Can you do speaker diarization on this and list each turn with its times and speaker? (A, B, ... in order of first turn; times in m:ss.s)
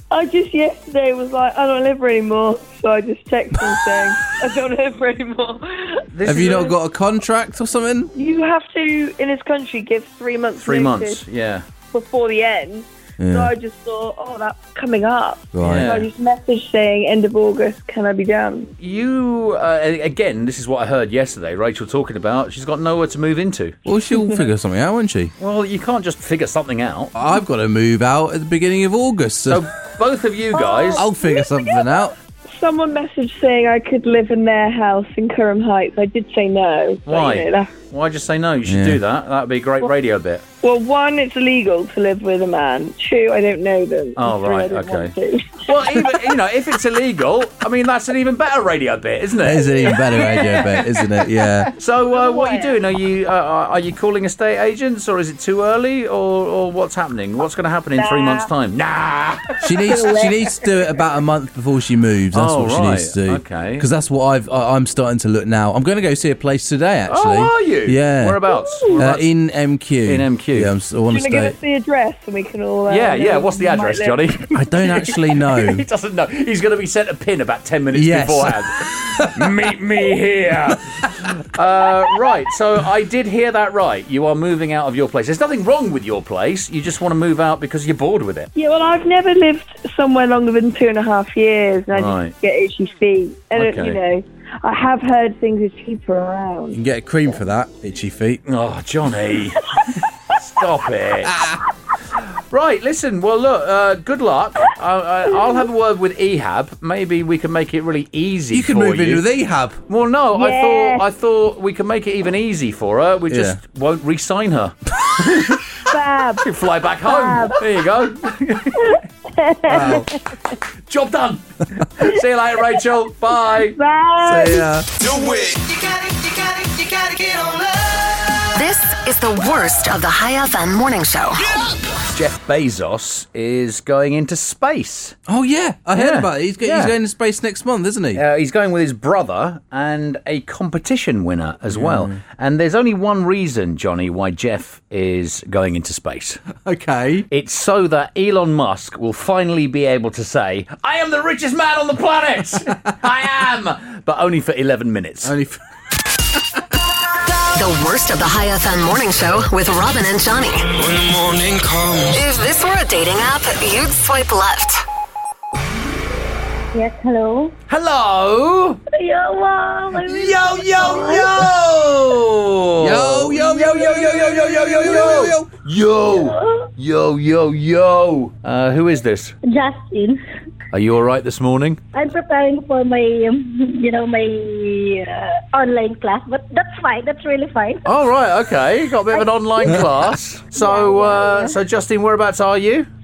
0:00.1-0:06.7 A
0:06.1-0:06.8 B
0:06.2-0:08.1 C
0:08.2-0:11.2 A
0:10.6-0:11.7 B
0:11.9-0:18.7 A
0:13.2-0:13.5 C
0:15.5-0:16.0 C
0:15.6-0:16.1 B
0:18.8-0:23.8 B
0:23.9-0:25.3 C
0:25.4-0:27.1 B
0:27.2-0:29.6 C
0:29.5-0:31.1 B
0:30.5-0:37.7 A
0:31.0-0:32.2 C
0:37.1-0:40.4 B
0:38.7-0:39.0 C
0:40.6-0:46.2 A
0:44.2-0:50.7 B
0:49.4-0:51.7 C
0:49.8-0:51.0 A
0:51.8-1:00.0 B
0:52.1-0:52.8 A
0:58.0-0:58.5 A
0:59.6-1:08.4 C
0:59.9-1:00.9 A
1:02.3-1:03.9 B
1:07.1-1:09.3 B
1:08.5-1:09.0 A
1:09.0-1:11.6 C
1:10.0-1:10.7 B
1:11.1-1:14.4 A
1:12.9-1:28.5 B
1:14.5-1:15.8 C
1:17.9-1:19.5 C
1:28.6-1:36.8 A
1:31.9-1:32.3 B
1:33.6-1:34.0 B
1:36.7-1:38.4 C
1:38.5-1:39.7 B
1:40.3-1:41.4 B
1:41.2-1:41.6 C
1:42.5-1:49.3 B
1:48.5-1:49.8 C
1:49.9-1:55.6 B
1:50.4-1:51.0 A
1:53.3-1:53.6 C
1:55.9-1:56.5 A
1:56.4-1:59.0 B
1:57.0-1:57.6 A
1:59.4-2:00.0 A
1:59.7-2:00.1 C
2:00.9-2:03.8 B
2:03.5-2:04.7 A
2:04.2-2:04.9 C
2:05.0-2:08.3 D
2:08.6-2:11.4 E
2:12.1-2:15.2 B
2:15.3-2:18.2 C
2:15.9-2:17.0 B
2:18.1-2:26.4 B
2:21.7-2:22.2 C
2:26.6-2:27.3 C
2:27.3-2:35.3 B
2:35.2-2:35.6 C
2:37.5-2:40.8 E
2:40.7-2:42.2 D
2:42.1-2:44.8 E
2:46.7-2:47.6 F
2:47.7-2:48.8 B
2:48.9-2:51.5 F
2:50.0-2:59.4 B
2:51.0-2:51.3 C
2:52.8-2:55.5 C
2:56.1-2:56.7 F
2:59.4-3:00.2 F
3:00.7-3:01.8 B
3:01.9-3:07.9 F
3:07.9-3:12.9 B
3:09.1-3:09.9 F
3:10.6-3:11.6 F